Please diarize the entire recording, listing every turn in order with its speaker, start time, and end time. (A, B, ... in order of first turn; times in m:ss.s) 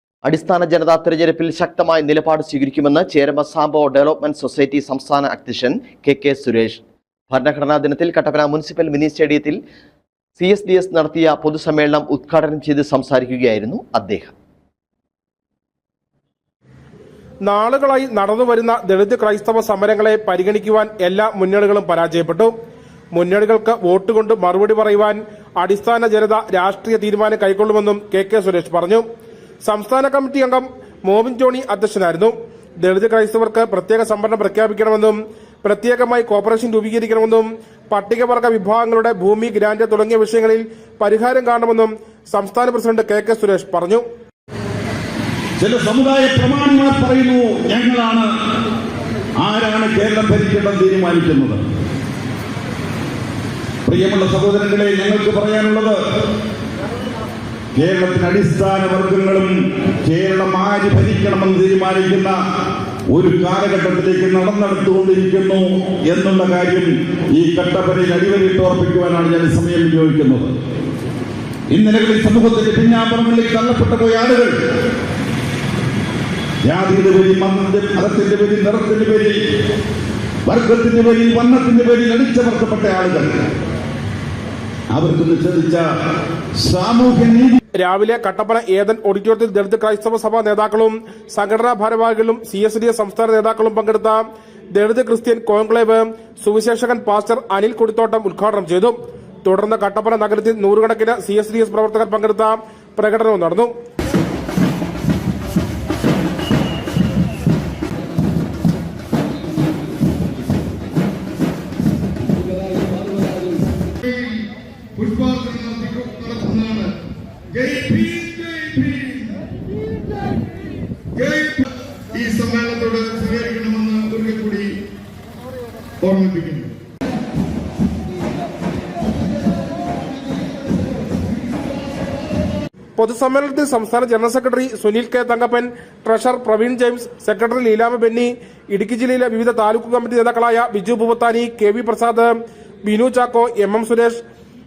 0:00.2-0:09.6 A
0:10.4-0:14.3 A
0:17.4-0:22.5 B
0:23.1-0:29.0 B
0:29.6-0:44.0 B
0:45.6-0:48.3 C
0:49.4-0:51.6 C
0:53.9-0:56.0 C
0:57.8-0:59.5 C
1:00.0-1:02.3 C
1:03.1-1:10.5 C
1:11.7-1:14.5 C
1:16.6-1:19.4 C
1:20.4-1:23.4 C
1:24.9-1:25.8 C
1:26.6-1:27.6 C
1:27.8-1:34.2 B
1:34.7-1:43.7 B
1:54.0-1:54.4 D
1:55.0-1:56.9 D
1:57.5-1:59.4 D
2:01.1-2:04.7 D
2:06.0-2:06.7 D
2:13.0-2:24.2 B